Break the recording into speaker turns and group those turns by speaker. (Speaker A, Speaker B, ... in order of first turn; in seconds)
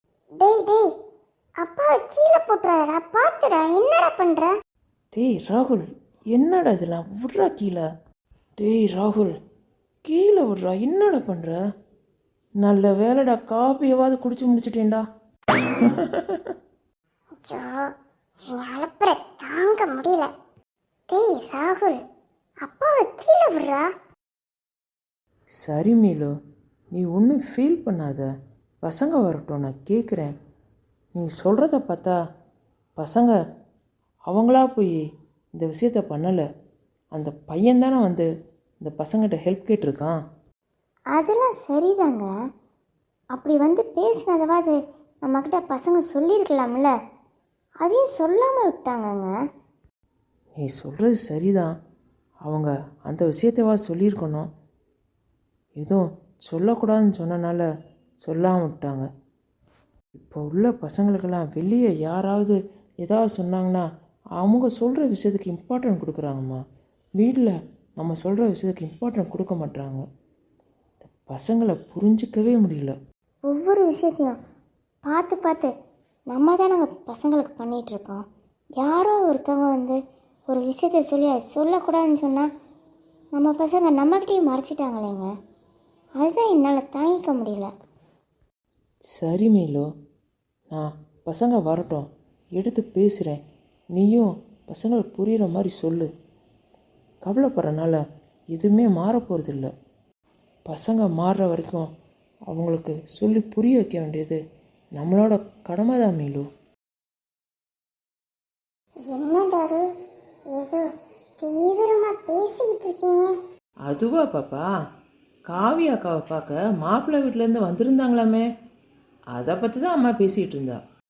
Speaker A: 0.4-0.9, 1.6-4.5, 17.4-17.9, 18.4-20.3, 21.1-22.0, 22.6-23.9, 41.1-42.3, 43.3-46.9, 47.8-49.3, 73.5-74.4, 75.1-75.7, 76.3-78.2, 78.8-80.0, 80.5-82.5, 83.3-85.3, 86.2-87.7, 109.1-109.8, 110.5-110.9, 111.4-113.3
Speaker B: 5.1-7.9, 8.6-9.3, 10.1-11.6, 12.6-15.0, 15.8-16.5, 25.6-26.4, 26.9-28.3, 28.8-30.4, 31.1-32.2, 33.0-33.4, 34.3-35.0, 35.5-36.4, 37.1-38.3, 38.8-40.2, 50.6-51.7, 52.5-54.5, 55.8-57.7, 58.2-59.1, 60.2-63.9, 64.4-66.6, 67.2-70.0, 71.1-73.0, 89.1-89.9, 90.7-93.4, 93.9-96.1, 97.2-98.0, 98.5-99.7, 100.7-101.9, 102.5-104.4, 105.0-106.5, 113.8-114.7, 115.5-118.5, 119.3-120.8